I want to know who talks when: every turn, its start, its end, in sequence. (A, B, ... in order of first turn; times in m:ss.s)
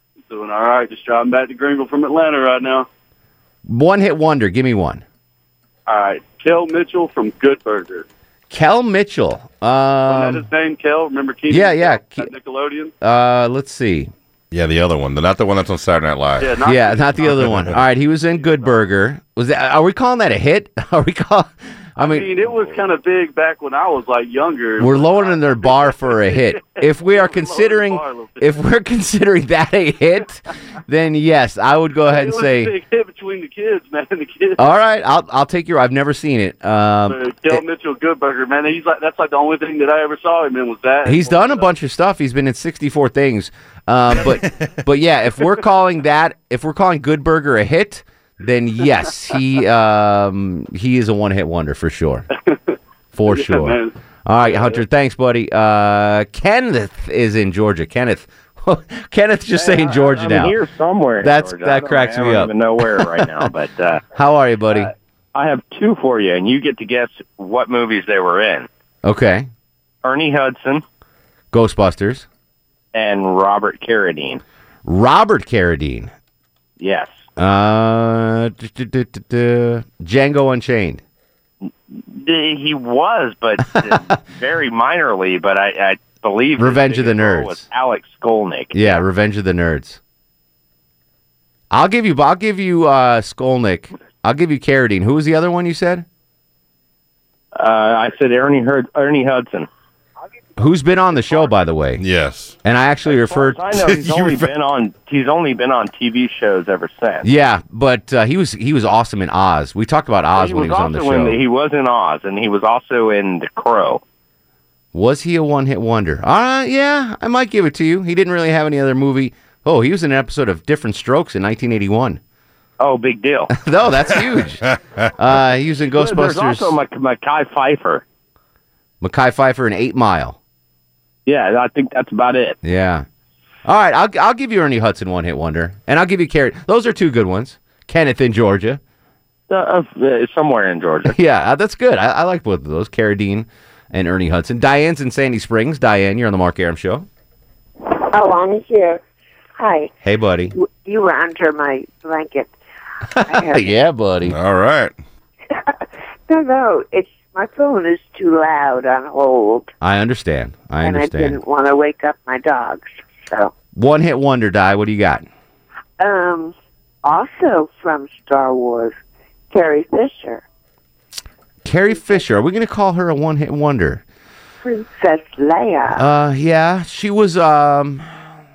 0:00.3-0:02.9 A
0:03.7-0:05.0 B
0:05.9-0:08.1 A
0:08.5-0:10.5 B
0:10.1-0:12.9 A
0:11.5-0:12.3 B
0:13.0-0:14.1 B
0:14.5-0:16.6 C
0:16.4-0:17.4 A
0:16.6-0:22.5 B
0:17.2-0:17.8 C
0:22.0-0:28.5 A
0:24.8-0:32.8 B
0:32.0-0:34.7 A
0:34.6-0:37.6 B
0:37.1-0:41.7 A
0:41.0-0:52.3 B
0:53.1-1:00.6 B
0:53.3-0:53.9 A
0:54.5-0:54.8 A
0:59.6-1:04.0 D
1:01.2-1:03.5 B
1:04.2-1:04.9 B
1:04.7-1:08.7 D
1:09.0-1:09.5 B
1:10.0-1:10.8 D
1:11.5-1:12.3 B
1:12.9-1:14.4 D
1:14.9-1:16.1 B
1:16.8-1:17.2 D
1:17.4-1:21.0 B
1:21.6-1:29.0 D
1:23.7-1:24.0 B
1:26.6-1:27.7 B
1:28.7-1:30.0 B
1:31.7-1:36.1 B
1:37.6-1:39.7 D
1:40.6-1:42.0 B
1:42.0-1:42.6 C
1:42.6-1:43.7 B
1:43.1-1:47.3 D
1:43.8-1:44.5 C
1:47.2-1:51.4 B
1:50.4-1:54.0 D
1:54.9-2:02.2 B
2:02.8-2:03.5 D
2:03.5-2:04.6 B
2:04.7-2:05.0 C
2:05.2-2:06.7 B
2:06.0-2:08.0 D
2:09.0-2:10.4 B
2:11.3-2:12.6 D
2:12.6-2:13.1 B
2:13.6-2:18.8 B
2:19.5-2:21.2 D
2:21.1-2:27.1 B
2:28.1-2:29.0 E
2:29.6-2:29.9 E
2:30.0-2:30.5 B
2:30.5-2:32.5 E
2:33.2-2:33.7 E
2:33.3-2:34.4 B
2:34.3-2:34.9 C
2:36.3-2:39.7 E
2:39.8-2:41.4 B
2:40.8-2:43.5 E
2:43.8-2:45.3 B
2:46.0-2:49.0 E
2:49.5-2:50.4 E
2:51.6-2:54.0 B
2:54.6-2:56.0 E
2:55.9-2:58.0 B